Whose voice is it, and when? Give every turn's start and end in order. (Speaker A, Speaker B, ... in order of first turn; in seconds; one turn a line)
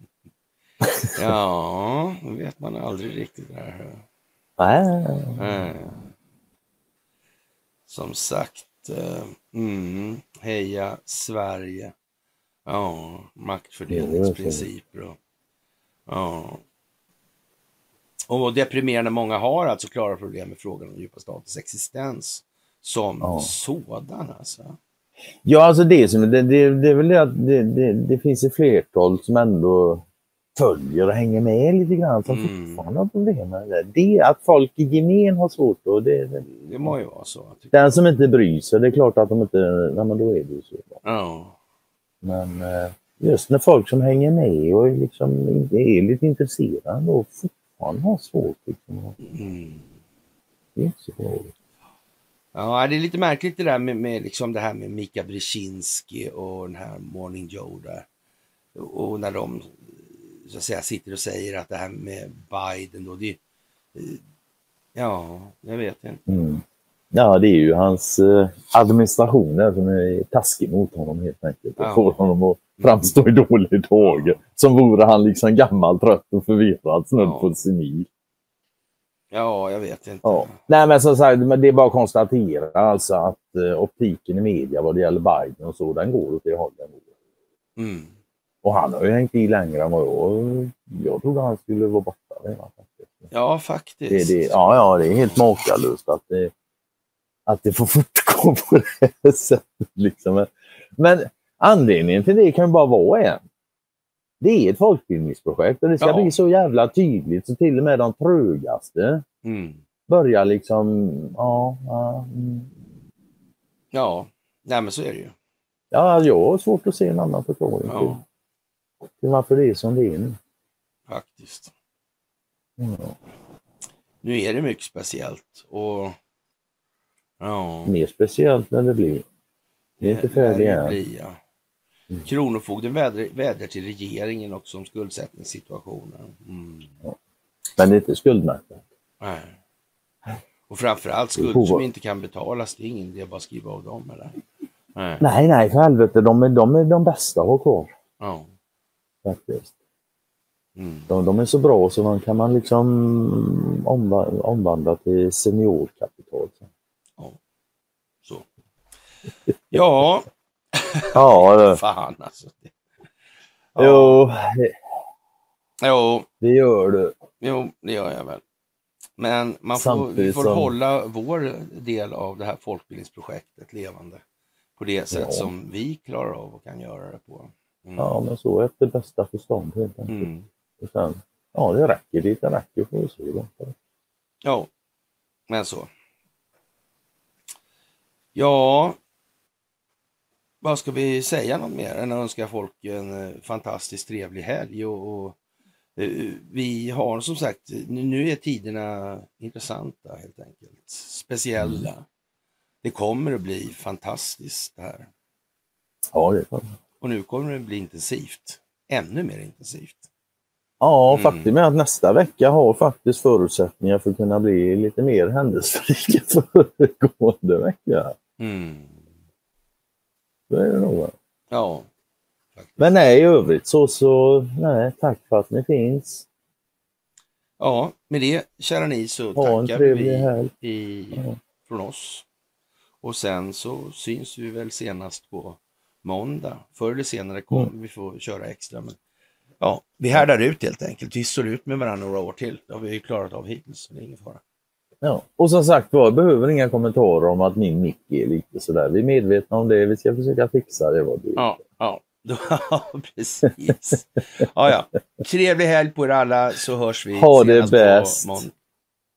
Speaker A: 0.8-1.1
Speaker B: 1.1-4.0
Speaker A: 4.6-5.4
Speaker B: 5.4-6.0
Speaker B: 7.9-11.9
Speaker B: 12.7-15.2
Speaker A: 13.9-14.7
Speaker B: 16.1-16.6
Speaker B: 18.3-24.8
Speaker A: 23.2-23.5
Speaker A: 25.4-30.0
Speaker A: 30.6-36.9
Speaker B: 32.3-32.9
Speaker B: 36.4-37.7
Speaker A: 37.7-41.0
Speaker B: 41.0-41.6
Speaker A: 42.2-49.2
Speaker B: 49.2-49.9
Speaker A: 50.8-51.5
Speaker B: 52.5-58.1
Speaker B: 58.8-63.4
Speaker B: 64.0-64.2
Speaker B: 65.0-66.2
Speaker A: 66.3-78.1
Speaker B: 71.8-72.0
Speaker B: 74.0-74.4
Speaker B: 77.2-77.5
Speaker B: 79.3-80.6
Speaker A: 80.2-87.0
Speaker B: 87.8-88.2
Speaker A: 88.6-93.3
Speaker B: 93.3-95.5
Speaker A: 94.1-96.5
Speaker A: 97.5-103.4
Speaker A: 104.4-109.2
Speaker B: 106.0-106.4
Speaker B: 109.4-109.8
Speaker A: 110.1-112.7
Speaker B: 113.9-115.3
Speaker A: 115.9-118.2
Speaker B: 117.9-118.2
Speaker A: 119.1-120.4
Speaker B: 121.1-121.7
Speaker A: 122.8-123.2
Speaker B: 124.2-126.2
Speaker B: 127.4-127.9
Speaker A: 127.9-129.2
Speaker A: 130.0-131.0
Speaker B: 130.0-131.4
Speaker B: 132.2-136.9
Speaker A: 137.8-138.8
Speaker B: 139.2-139.6
Speaker B: 140.7-144.4
Speaker A: 141.4-141.9
Speaker B: 144.9-145.2
Speaker A: 145.2-147.9
Speaker B: 148.2-148.5
Speaker A: 149.2-149.7
Speaker B: 150.8-151.1
Speaker A: 151.1-156.6
Speaker B: 159.7-162.7
Speaker A: 161.2-161.8
Speaker B: 163.8-164.2
Speaker A: 163.8-164.8
Speaker B: 165.8-166.3
Speaker A: 166.4-167.2
Speaker B: 167.4-168.4
Speaker B: 169.2-174.2
Speaker A: 169.7-170.7
Speaker B: 174.8-178.2
Speaker A: 175.1-175.5
Speaker A: 178.0-180.3
Speaker B: 180.1-180.5
Speaker A: 180.8-183.7
Speaker B: 184.4-184.7
Speaker B: 185.5-185.9
Speaker B: 188.3-189.0
Speaker B: 190.6-195.4
Speaker B: 196.0-202.1
Speaker A: 201.6-201.9
Speaker B: 202.8-205.1
Speaker A: 206.1-206.6
Speaker B: 207.0-210.1
Speaker A: 210.8-218.2
Speaker B: 211.1-211.5
Speaker B: 218.4-219.1
Speaker A: 220.5-221.1
Speaker B: 221.5-221.9
Speaker A: 222.8-226.3
Speaker B: 227.6-232.3
Speaker A: 229.4-230.5
Speaker B: 233.0-239.0
Speaker B: 239.6-244.4
Speaker A: 245.0-251.6
Speaker B: 251.4-258.5
Speaker A: 257.1-258.4